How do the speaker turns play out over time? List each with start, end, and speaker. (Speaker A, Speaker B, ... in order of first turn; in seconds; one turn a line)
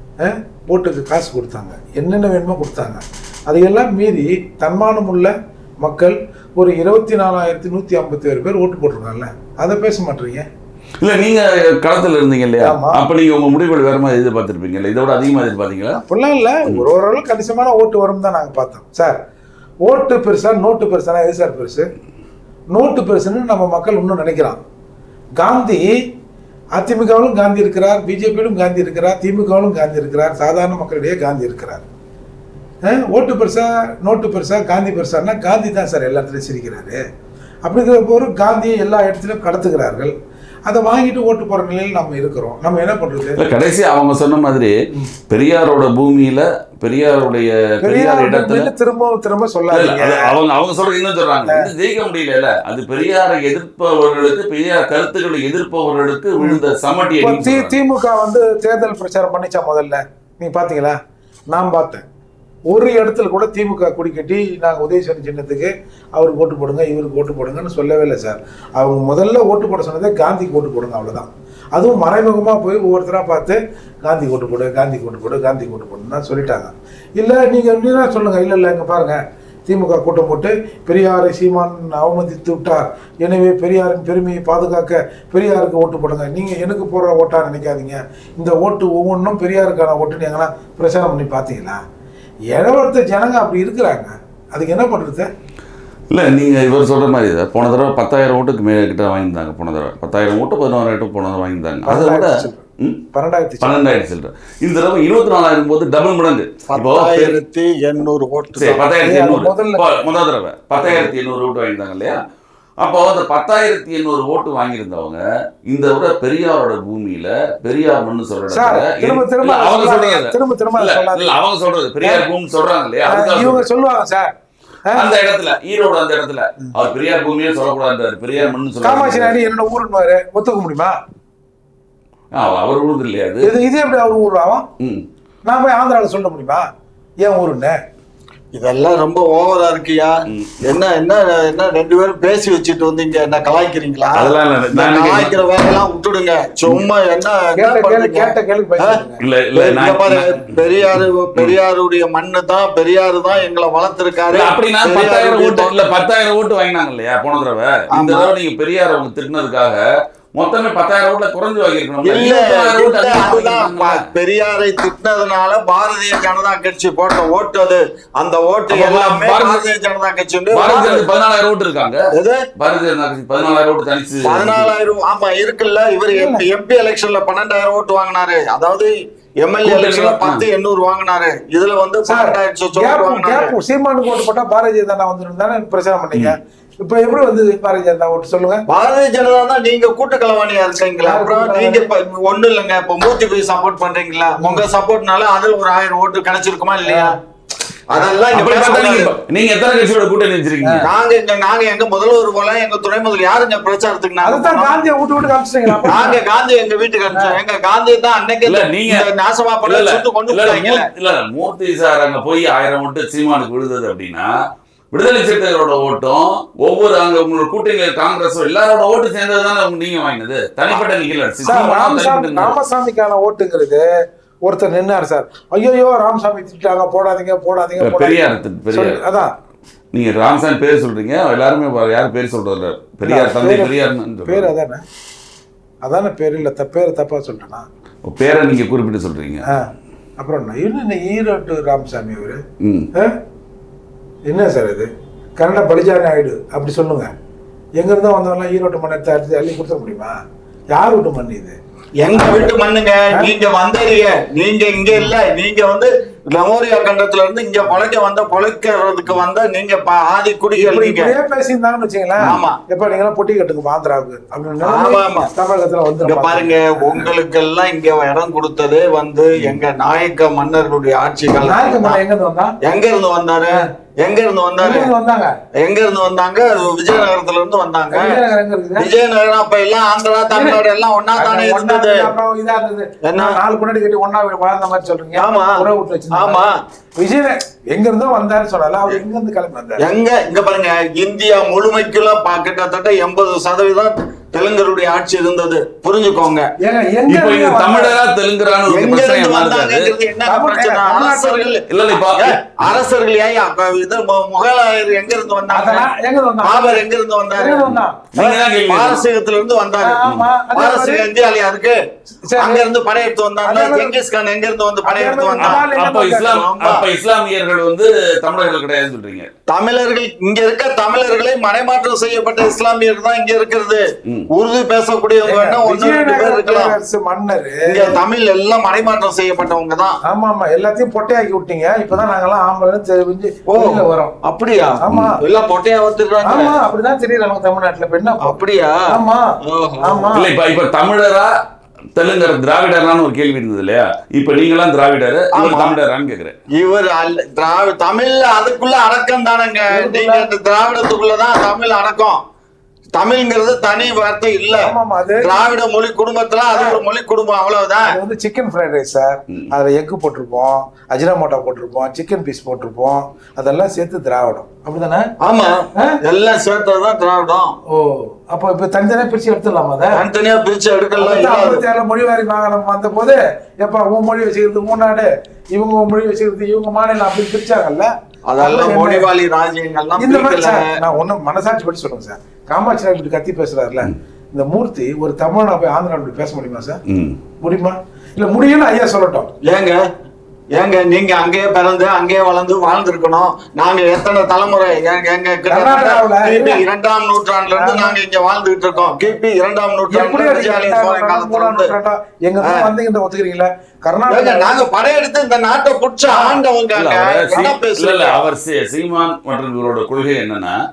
Speaker A: 0.2-10.4
Speaker B: 11.0-16.0
Speaker A: 12.6-13.0
Speaker A: 16.1-19.2
Speaker A: 19.8-21.9
Speaker A: 22.7-24.6
Speaker A: 25.4-25.9
Speaker A: 26.7-31.8
Speaker A: 32.8-37.0
Speaker A: 37.6-40.1
Speaker A: 40.7-43.4
Speaker B: 43.4-44.7
Speaker B: 45.3-48.7
Speaker A: 47.8-50.3
Speaker B: 49.7-57.7
Speaker A: 57.2-61.0
Speaker A: 61.5-62.0
Speaker A: 62.7-91.8
Speaker A: 92.5-95.3
Speaker B: 96.1-103.0
Speaker A: 101.8-103.8
Speaker B: 103.6-107.4
Speaker C: 106.7-108.8
Speaker B: 108.5-112.2
Speaker A: 109.0-110.1
Speaker B: 112.8-123.7
Speaker A: 118.5-121.3
Speaker A: 123.1-124.3
Speaker B: 124.9-129.4
Speaker A: 128.8-130.9
Speaker B: 132.3-133.5
Speaker A: 133.4-134.7
Speaker A: 135.4-136.6
Speaker A: 137.2-137.8
Speaker C: 138.5-149.0
Speaker B: 140.3-140.6
Speaker B: 144.1-145.3
Speaker A: 147.6-149.2
Speaker B: 149.2-151.6
Speaker C: 149.5-155.8
Speaker B: 154.3-159.8
Speaker C: 157.9-158.3
Speaker B: 160.3-164.1
Speaker C: 162.0-171.1
Speaker B: 168.7-169.7
Speaker B: 170.5-172.0
Speaker C: 172.1-172.4
Speaker B: 172.6-174.7
Speaker C: 174.2-178.9
Speaker A: 176.1-176.4
Speaker C: 179.4-183.5
Speaker B: 179.6-180.4
Speaker A: 182.1-188.6
Speaker C: 188.7-197.1
Speaker A: 191.0-191.9
Speaker A: 194.4-194.6
Speaker A: 196.8-197.1
Speaker C: 197.9-199.1
Speaker B: 198.3-200.8
Speaker C: 200.8-204.8
Speaker A: 204.2-206.2
Speaker B: 205.7-205.9
Speaker C: 205.9-210.9
Speaker A: 207.1-207.4
Speaker B: 208.4-209.1
Speaker B: 209.6-214.3
Speaker B: 214.9-222.5
Speaker A: 221.4-223.8
Speaker A: 224.4-229.3
Speaker B: 227.8-229.0
Speaker B: 229.9-234.5
Speaker A: 233.0-233.7
Speaker A: 234.2-234.8
Speaker A: 235.8-237.7
Speaker B: 238.0-239.4
Speaker A: 240.2-242.4
Speaker B: 242.6-242.9
Speaker A: 244.3-247.1
Speaker A: 247.8-250.1
Speaker A: 250.7-251.6
Speaker C: 252.0-261.1
Speaker A: 260.6-267.1
Speaker C: 262.2-262.6
Speaker C: 264.6-265.3
Speaker C: 266.0-272.0
Speaker A: 271.3-272.5
Speaker C: 272.6-274.9
Speaker A: 274.6-275.3
Speaker C: 275.6-278.2
Speaker A: 277.9-278.9
Speaker C: 278.8-282.0
Speaker A: 280.3-280.6
Speaker A: 281.1-289.8
Speaker C: 283.0-283.4
Speaker C: 285.1-285.6
Speaker C: 286.1-286.5
Speaker C: 289.8-296.4
Speaker A: 296.6-297.9
Speaker B: 297.1-299.9
Speaker C: 298.7-305.9
Speaker A: 300.2-301.6
Speaker B: 301.7-302.8
Speaker A: 305.5-306.8
Speaker C: 306.4-310.0
Speaker A: 307.3-308.0
Speaker B: 307.6-309.0
Speaker A: 309.8-311.1
Speaker C: 310.5-311.8
Speaker A: 312.2-312.6
Speaker C: 312.4-315.6
Speaker A: 313.4-314.0
Speaker A: 314.8-316.4
Speaker B: 315.4-319.3
Speaker C: 316.3-316.9
Speaker C: 319.5-326.7
Speaker A: 325.3-328.0
Speaker C: 327.6-329.9
Speaker A: 330.1-334.1
Speaker C: 333.5-336.6
Speaker A: 334.8-335.2
Speaker A: 336.2-339.2
Speaker C: 338.2-338.8
Speaker C: 339.5-340.1
Speaker A: 339.8-340.3
Speaker B: 340.1-341.3
Speaker B: 341.9-346.3
Speaker C: 345.3-345.8
Speaker C: 346.6-352.2
Speaker A: 349.7-350.3
Speaker C: 352.9-358.0
Speaker A: 354.6-355.5
Speaker A: 356.5-356.8
Speaker A: 357.8-365.1
Speaker C: 365.2-367.5
Speaker A: 367.7-370.0
Speaker C: 369.9-371.6
Speaker A: 370.9-379.1
Speaker C: 378.3-380.7
Speaker A: 380.0-386.8
Speaker B: 386.9-387.2
Speaker A: 387.4-389.3
Speaker C: 389.4-389.8
Speaker C: 390.6-401.7
Speaker A: 395.5-396.6
Speaker A: 397.5-398.0
Speaker A: 399.9-404.6
Speaker C: 402.4-402.7
Speaker C: 404.1-408.2
Speaker A: 406.1-406.4
Speaker B: 406.7-410.6
Speaker A: 407.3-407.6